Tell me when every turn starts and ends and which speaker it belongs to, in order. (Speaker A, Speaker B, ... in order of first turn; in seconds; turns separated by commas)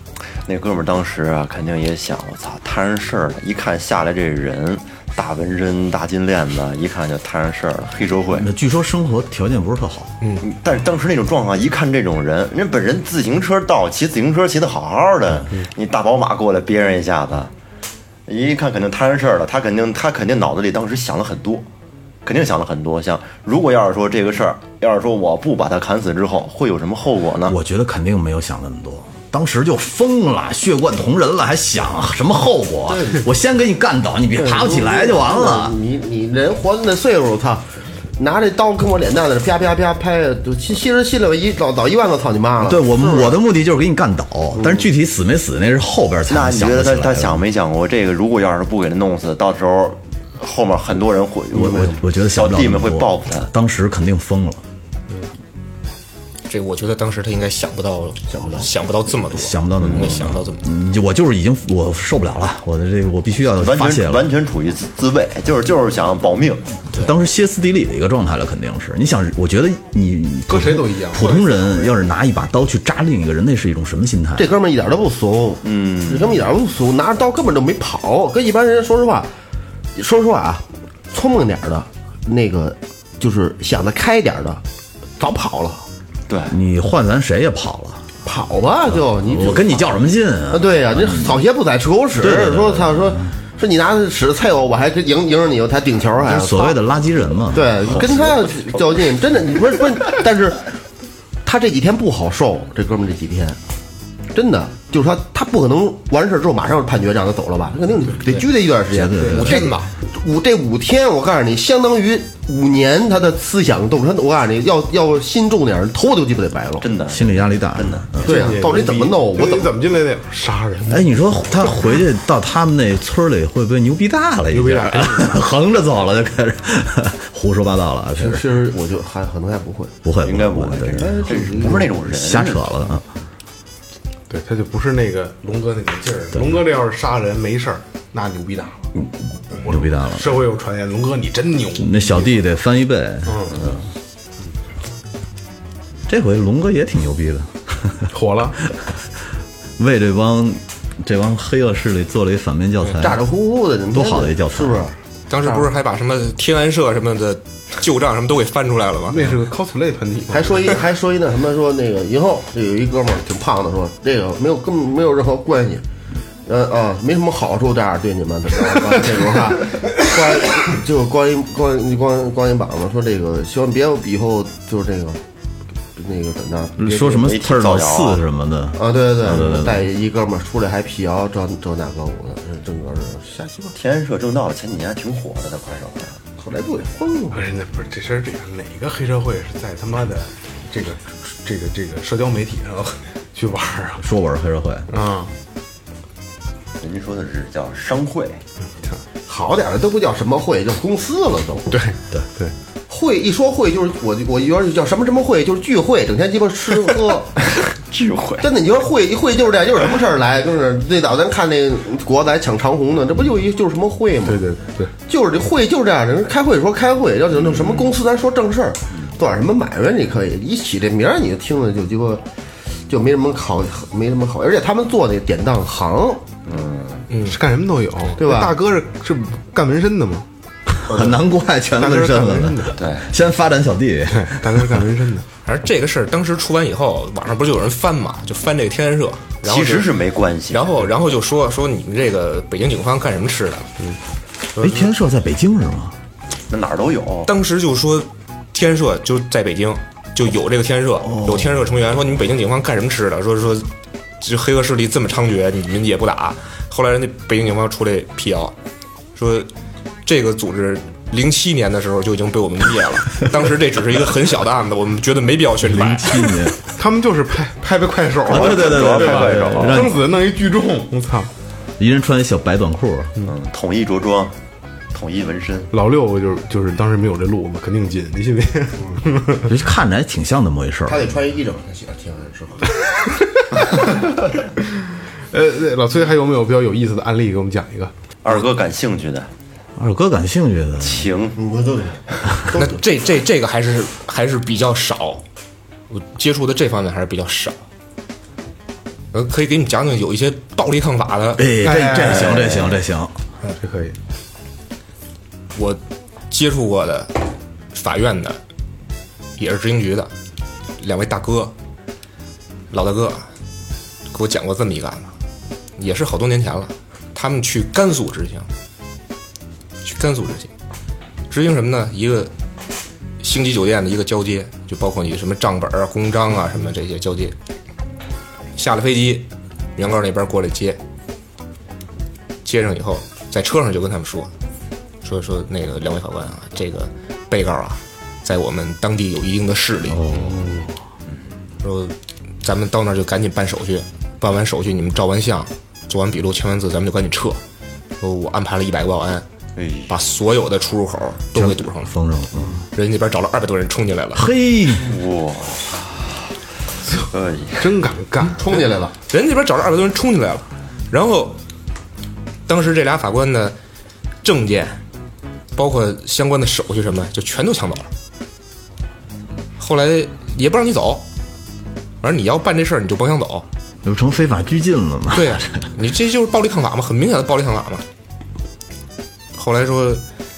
Speaker A: 0.4-8.5, Speaker B: 8.3-10.1, Speaker A: 10.4-17.5, Speaker A: 18.3-21.7, Speaker A: 22.2-27.6, Speaker B: 27.4-35.8, Speaker C: 32.9-33.2, Speaker C: 34.4-37.6, Speaker C: 38.2-43.4, Speaker B: 42.6-47.4, Speaker C: 44.5-44.9, Speaker A: 46.3-53.5, Speaker B: 51.5-54.6, Speaker D: 56.5-60.7, Speaker C: 58.3-58.7, Speaker B: 59.3-64.3, Speaker A: 59.8-60.2, Speaker A: 63.6-66.7, Speaker B: 66.9-74.5, Speaker E: 70.5-71.9, Speaker C: 74.4-79.3, Speaker A: 75.6-76.4, Speaker C: 79.9-84.6, Speaker C: 85.2-85.8, Speaker A: 86.3-86.5, Speaker B: 86.5-88.0, Speaker C: 88.2-89.9, Speaker B: 88.9-91.4, Speaker C: 90.5-96.8, Speaker B: 92.2-93.2, Speaker B: 96.2-98.3, Speaker C: 97.5-100.7, Speaker C: 101.4-103.6, Speaker C: 104.3-116.9, Speaker B: 108.9-109.6, Speaker D: 109.2-109.9, Speaker E: 109.2-109.7, Speaker A: 116.8-118.1, Speaker B: 117.1-118.6, Speaker C: 118.2-119.7, Speaker E: 118.2-121.1, Speaker B: 120.9-128.5, Speaker E: 124.5-125.4, Speaker C: 128.2-129.9, Speaker B: 130.0-133.0, Speaker A: 130.2-132.8, Speaker C: 130.9-131.8, Speaker E: 134.3-138.8, Speaker B: 136.3-136.7, Speaker E: 139.5-142.4, Speaker B: 139.6-140.4, Speaker B: 141.7-143.8, Speaker E: 143.2-143.7, Speaker B: 146.1-148.1, Speaker E: 148.1-148.6, Speaker B: 149.8-153.2, Speaker C: 152.9-155.7, Speaker B: 153.9-154.8, Speaker D: 155.3-159.2, Speaker E: 159.1-160.8, Speaker C: 160.3-165.8, Speaker C: 166.4-175.2, Speaker C: 175.9-177.3, Speaker B: 176.8-179.8, Speaker A: 177.2-178.2, Speaker C: 178.7-183.7, Speaker A: 183.7-186.2, Speaker C: 186.4-187.4, Speaker E: 187.3-194.1, Speaker B: 194.0-194.9, Speaker E: 194.9-195.3, Speaker A: 196.8-198.4, Speaker C: 199.3-201.7, Speaker E: 201.7-202.5, Speaker C: 202.9-207.3, Speaker A: 207.5-208.5, Speaker C: 208.4-214.4, Speaker E: 214.2-214.9, Speaker C: 215.1-222.2, Speaker A: 217.3-217.9, Speaker C: 222.9-226.2, Speaker A: 226.5-227.0, Speaker D: 227.1-227.4, Speaker E: 227.2-230.3, Speaker C: 228.1-228.6, Speaker B: 230.8-234.7, Speaker E: 231.8-232.8, Speaker A: 232.8-233.1, Speaker E: 234.1-235.2, Speaker D: 235.4-239.9, Speaker A: 239.4-240.7, Speaker D: 240.5-243.7, Speaker B: 244.6-245.9, Speaker A: 246.5-247.3, Speaker D: 247.3-253.7, Speaker B: 251.0-251.6, Speaker D: 254.2-258.5, Speaker D: 259.1-259.5, Speaker D: 260.0-266.3, Speaker B: 265.6-266.5, Speaker E: 266.7-271.3, Speaker A: 268.3-270.0, Speaker B: 268.3-270.0, Speaker B: 271.8-273.1, Speaker A: 273.2-274.3, Speaker A: 274.9-275.7, Speaker E: 275.7-279.5, Speaker B: 279.5-281.1, Speaker C: 280.9-282.7, Speaker E: 285.3-287.9, Speaker A: 288.2-289.3, Speaker B: 289.8-291.1, Speaker A: 290.8-291.4, Speaker C: 291.4-292.7, Speaker D: 292.5-295.2, Speaker D: 295.9-297.6, Speaker D: 299.1-301.5, Speaker B: 301.4-303.1, Speaker E: 301.6-302.7, Speaker E: 303.5-304.0, Speaker D: 305.5-305.8, Speaker D: 306.3-307.1, Speaker D: 307.7-308.4, Speaker D: 309.4-310.1, Speaker D: 310.8-311.5, Speaker D: 312.7-313.3, Speaker D: 314.1-315.1, Speaker D: 315.8-318.5, Speaker D: 319.8-320.5, Speaker D: 321.3-322.3, Speaker D: 323.2-327.3, Speaker D: 328.6-330.8, Speaker D: 332.4-334.3, Speaker D: 335.0-340.0, Speaker B: 339.9-340.6, Speaker E: 340.1-340.6, Speaker D: 341.6-347.4, Speaker D: 348.0-349.2, Speaker A: 349.6-349.9, Speaker D: 349.9-351.9, Speaker B: 351.3-352.6, Speaker D: 352.7-354.2, Speaker B: 354.1-354.9, Speaker A: 354.8-356.1, Speaker A: 357.1-357.8, Speaker E: 357.6-358.6, Speaker C: 358.3-358.9, Speaker D: 359.1-361.4, Speaker D: 362.5-363.6, Speaker D: 364.2-364.8, Speaker D: 365.5-367.9, Speaker D: 369.6-371.0, Speaker D: 372.0-373.4, Speaker B: 373.8-375.7, Speaker D: 375.1-377.8, Speaker D: 379.3-380.0